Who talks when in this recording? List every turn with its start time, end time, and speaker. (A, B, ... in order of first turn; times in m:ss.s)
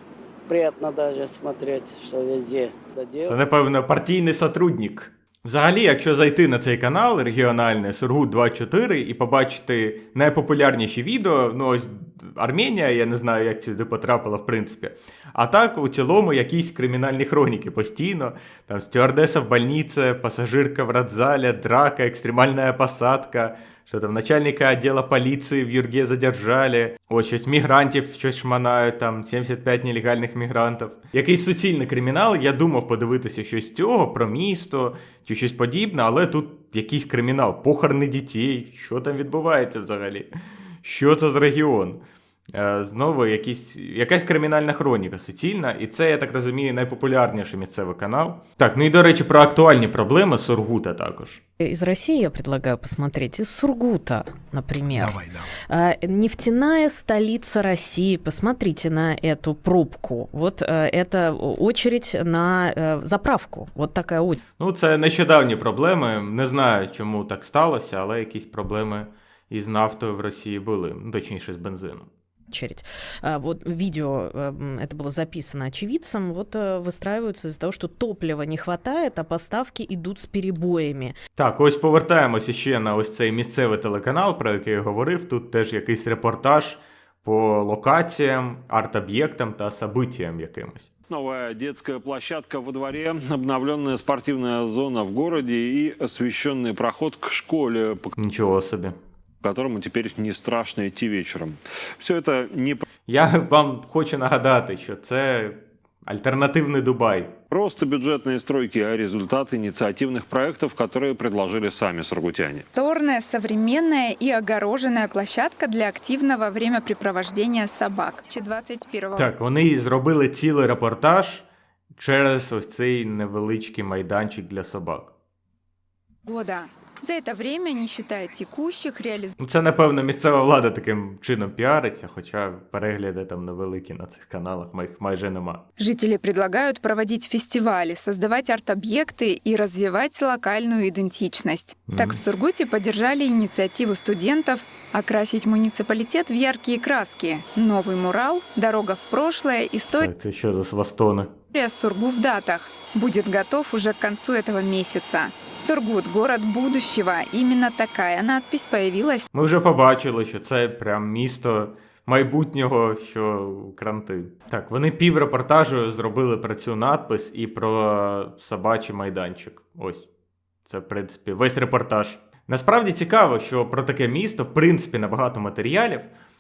0:00.5-0:03.4 A
0:03.2-0:40.3 B
0:40.8-0:42.0 B
0:42.5-0:51.4 B
0:51.6-1:04.4 C
1:04.6-1:12.1 B
1:12.5-1:21.2 C
1:21.4-1:30.9 B
1:31.1-1:38.1 D
1:38.2-1:39.0 B
1:39.4-1:42.8 D
1:43.1-1:47.3 B
1:47.5-1:52.7 D
1:52.7-1:59.3 E
1:59.2-2:01.5 B
2:02.0-2:05.1 B
2:06.3-2:09.4 E
2:09.4-2:15.6 B
2:15.8-2:30.1 E
2:21.9-2:22.2 B
2:30.0-2:31.3 B
2:31.5-2:39.3 E
2:39.3-2:50.1 B
2:50.6-2:56.1 B